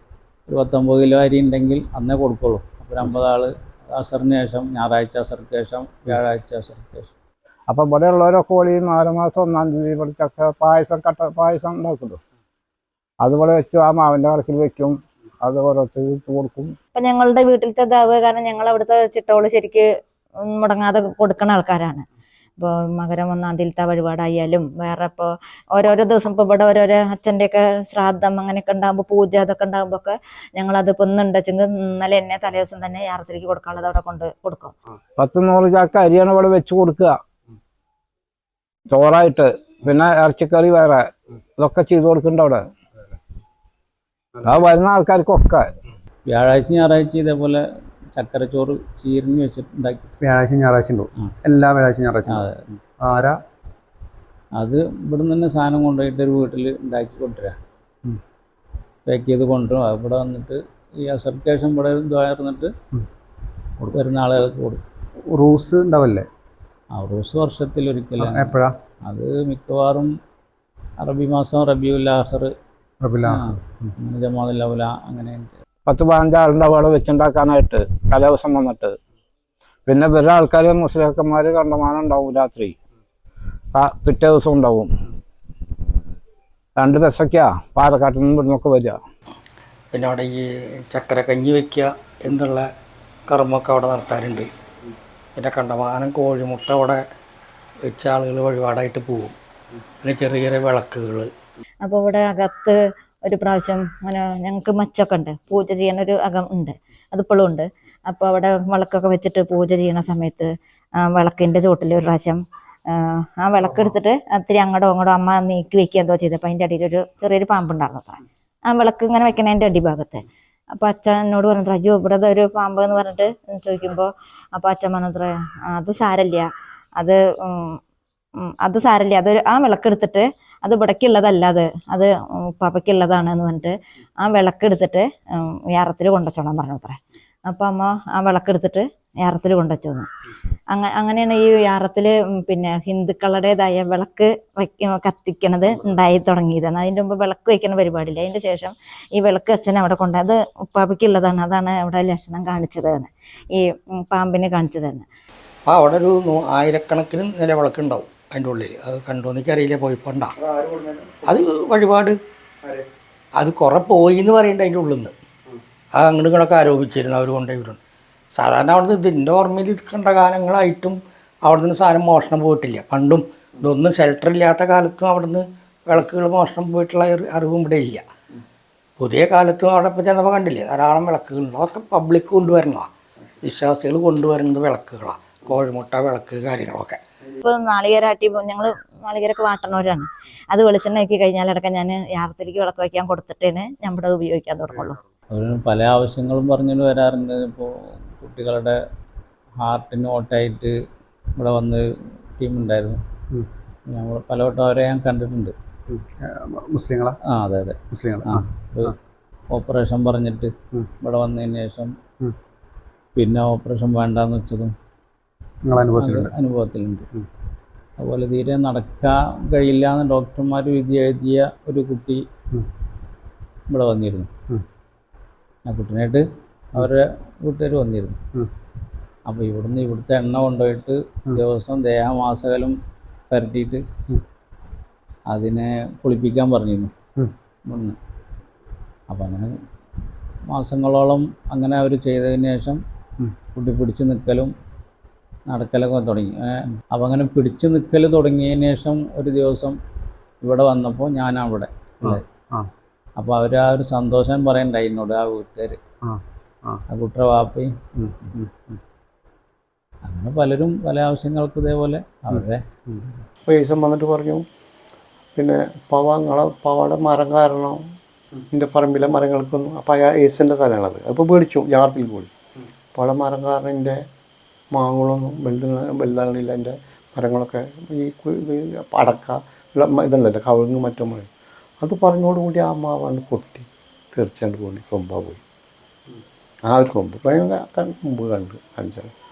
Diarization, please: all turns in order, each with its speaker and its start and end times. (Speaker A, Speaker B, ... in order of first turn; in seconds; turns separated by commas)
Speaker A: 0.5-7.1, Speaker B: 7.7-12.2, Speaker B: 13.2-16.7, Speaker C: 16.9-19.8, Speaker C: 20.4-22.0, Speaker C: 22.6-34.7, Speaker B: 35.2-37.2, Speaker B: 38.9-41.0, Speaker B: 41.6-42.6, Speaker B: 44.4-45.6, Speaker A: 46.3-47.6, Speaker A: 48.1-50.1, Speaker D: 50.2-52.4, Speaker A: 52.3-52.7, Speaker D: 53.0-53.4, Speaker A: 54.6-57.5, Speaker A: 59.0-62.7, Speaker A: 63.9-64.8, Speaker D: 65.3-66.3, Speaker A: 66.9-70.1, Speaker D: 68.2-68.7, Speaker A: 71.0-72.5, Speaker D: 73.0-73.9, Speaker A: 73.2-75.5, Speaker B: 75.9-79.0, Speaker B: 79.9-82.7, Speaker B: 83.7-84.9, Speaker B: 86.8-89.0, Speaker E: 89.9-92.7, Speaker E: 93.3-94.5, Speaker E: 95.3-97.0, Speaker E: 97.9-99.3, Speaker E: 100.0-101.3, Speaker C: 101.8-110.5, Speaker C: 111.0-112.4, Speaker C: 112.9-120.2, Speaker C: 120.8-126.5, Speaker C: 127.0-127.8, Speaker C: 128.4-136.9, Speaker C: 137.5-140.1, Speaker C: 140.7-155.1, Speaker E: 155.7-160.3, Speaker D: 160.5-161.1, Speaker E: 161.2-162.1, Speaker E: 163.4-165.1, Speaker E: 166.0-167.8, Speaker E: 168.4-178.0, Speaker E: 179.0-182.9, Speaker E: 183.4-187.0, Speaker C: 187.4-195.0, Speaker A: 195.3-198.7, Speaker A: 199.6-200.7, Speaker A: 201.4-201.8, Speaker A: 202.4-203.0, Speaker A: 203.9-205.5, Speaker D: 205.9-207.2, Speaker A: 207.2-208.9, Speaker D: 207.9-208.4, Speaker A: 209.5-211.9, Speaker A: 213.2-214.7, Speaker D: 215.7-216.3, Speaker A: 215.9-217.1, Speaker A: 218.0-222.2, Speaker A: 223.7-224.3, Speaker A: 225.7-226.2, Speaker A: 226.7-228.2, Speaker A: 229.2-232.8, Speaker A: 233.3-233.8, Speaker A: 235.3-236.9, Speaker A: 237.7-238.0, Speaker A: 239.1-239.5, Speaker A: 240.5-242.8, Speaker A: 243.5-244.5, Speaker A: 245.5-249.8, Speaker A: 250.4-252.3, Speaker D: 252.0-252.7, Speaker A: 253.2-255.8, Speaker D: 256.1-256.8, Speaker A: 256.9-257.7, Speaker D: 258.0-258.6, Speaker A: 260.1-262.6, Speaker D: 262.3-263.0, Speaker F: 263.5-264.4, Speaker F: 265.4-267.8, Speaker F: 268.5-272.3, Speaker F: 272.9-274.0, Speaker F: 274.7-281.3, Speaker F: 281.8-285.4, Speaker F: 286.7-289.1